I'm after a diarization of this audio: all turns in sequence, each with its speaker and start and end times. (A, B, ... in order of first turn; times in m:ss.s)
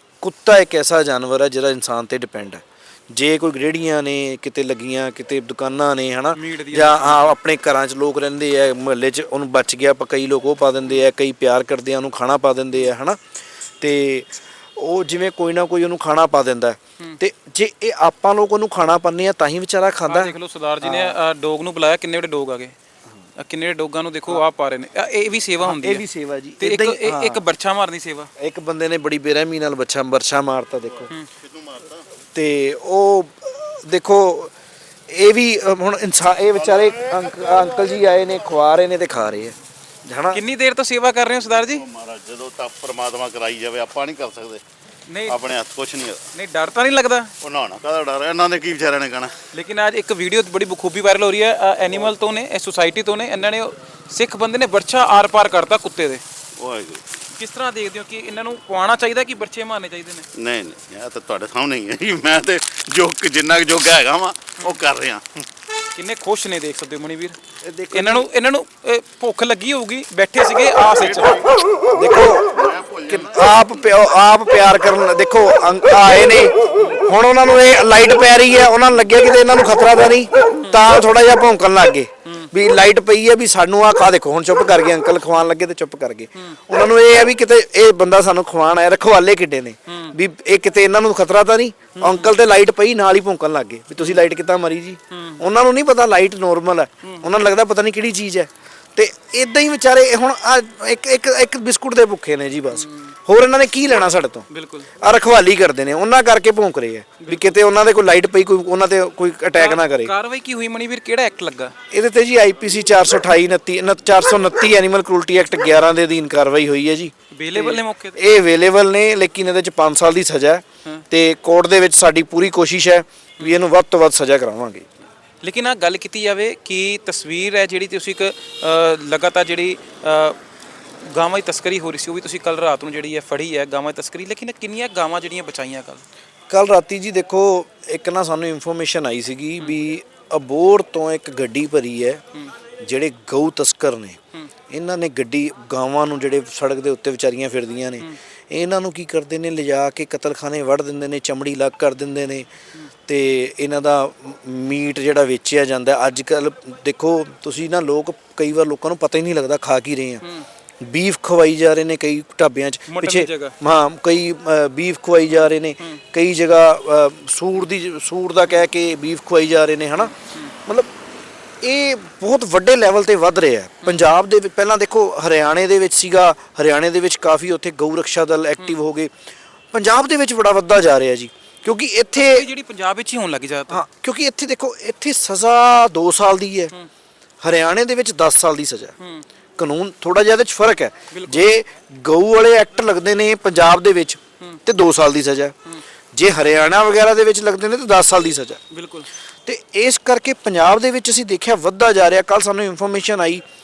0:00.2-0:13.2 A
0:06.3-0:07.4 B
0:13.8-0:21.2 A
0:20.1-0:22.8 B
0:23.4-0:26.0 B
0:25.6-0:27.4 A
0:26.6-0:28.3 B
0:28.4-0:31.1 A
0:31.6-0:31.9 C
0:32.3-0:34.5 A
0:35.1-0:40.4 A
0:40.3-0:41.9 B
0:41.8-0:44.6 C
0:45.1-0:45.5 B
0:45.2-0:46.2 C
0:46.3-0:47.3 B
0:47.4-0:49.4 C
0:49.5-0:56.2 B
0:56.6-0:57.0 C
0:57.3-1:00.3 B
1:00.3-1:05.4 C
1:05.9-1:07.4 B
1:07.6-1:08.3 A
1:07.9-1:11.5 B
1:10.9-1:11.6 C
1:11.9-1:44.5 A
1:12.5-1:13.4 C
1:29.9-1:30.1 B
1:32.0-1:32.3 B
1:34.0-1:34.2 B
1:35.1-1:35.4 B
1:42.7-1:43.1 B
1:44.5-1:44.9 B
1:45.0-1:50.1 A
1:47.2-1:47.6 B
1:49.5-1:51.8 B
1:51.9-2:04.9 A
1:57.4-1:58.2 B
2:05.4-2:10.4 B
2:11.0-2:16.0 B
2:16.5-2:22.2 A
2:22.8-2:24.2 A
2:24.7-2:32.5 A
2:33.0-2:40.2 A
2:40.8-2:50.1 A
2:42.9-2:43.5 B
2:50.0-2:50.5 B
2:50.6-2:50.9 A
2:51.6-2:59.1 A
2:59.7-3:02.5 A
3:02.1-3:03.8 B
3:03.7-3:06.7 A
3:07.4-3:08.9 A
3:09.0-3:09.2 B
3:09.6-3:15.6 A
3:11.1-3:11.5 B
3:16.1-3:18.6 A
3:18.7-3:19.1 B
3:19.5-3:23.4 A